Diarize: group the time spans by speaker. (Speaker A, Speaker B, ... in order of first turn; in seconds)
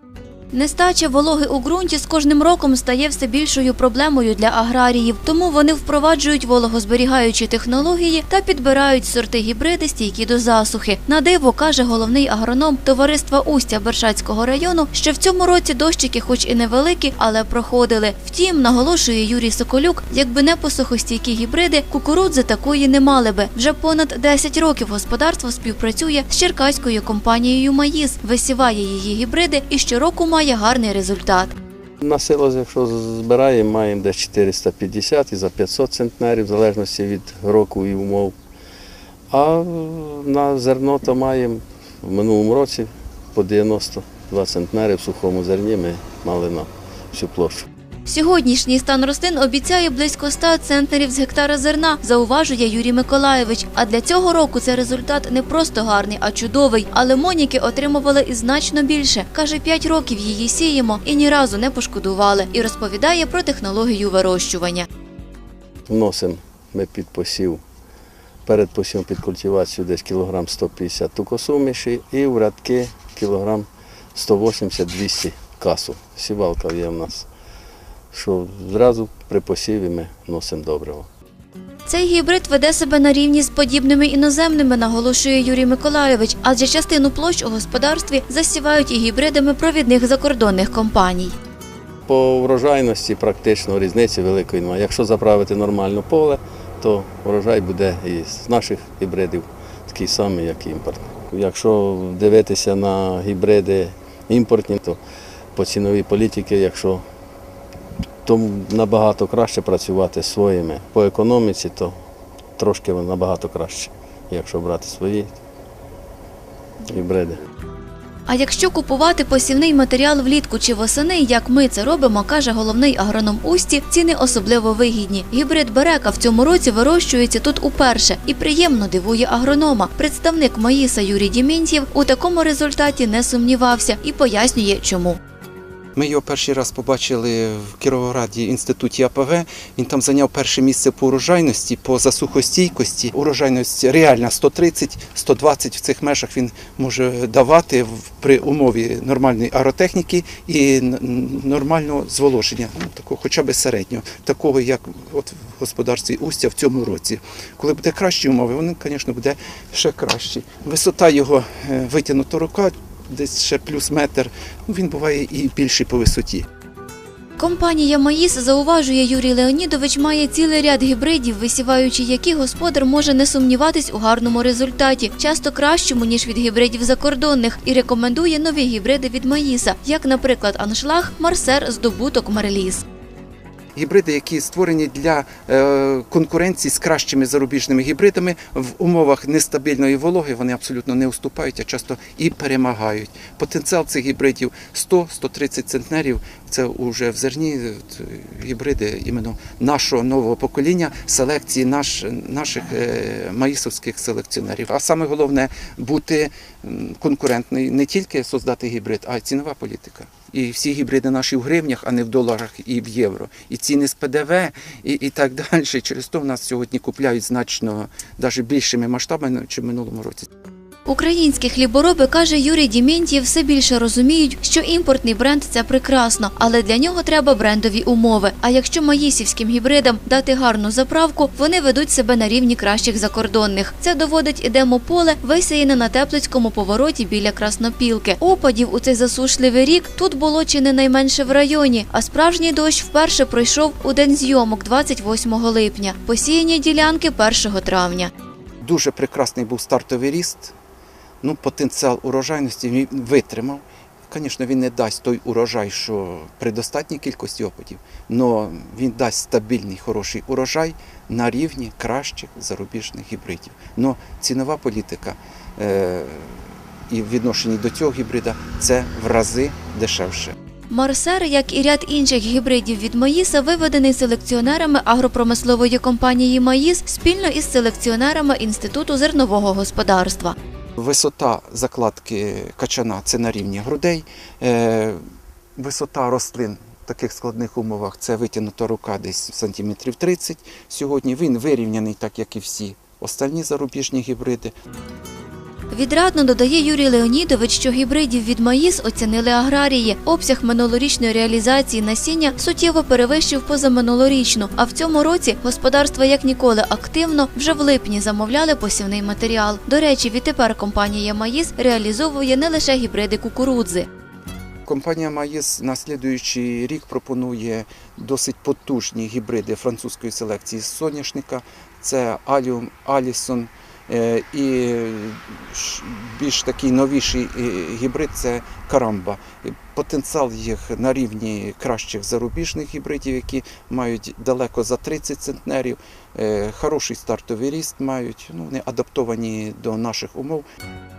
Speaker A: 0.5-31.5, 48.0-64.9, 81.9-91.3, 118.3-135.2, 167.4-182.8, 220.9-248.1, 270.7-280.4, 295.7-313.9
Speaker B: 32.0-38.3, 39.3-47.7, 65.9-67.6, 68.5-77.3, 78.1-81.1, 92.1-105.0, 105.5-107.0, 108.2-111.9, 112.6-115.3, 116.9-117.4
Speaker C: 136.0-166.5, 183.8-220.3, 248.6-250.5, 251.2-270.4, 280.8-285.0, 285.6-294.5, 314.7-340.5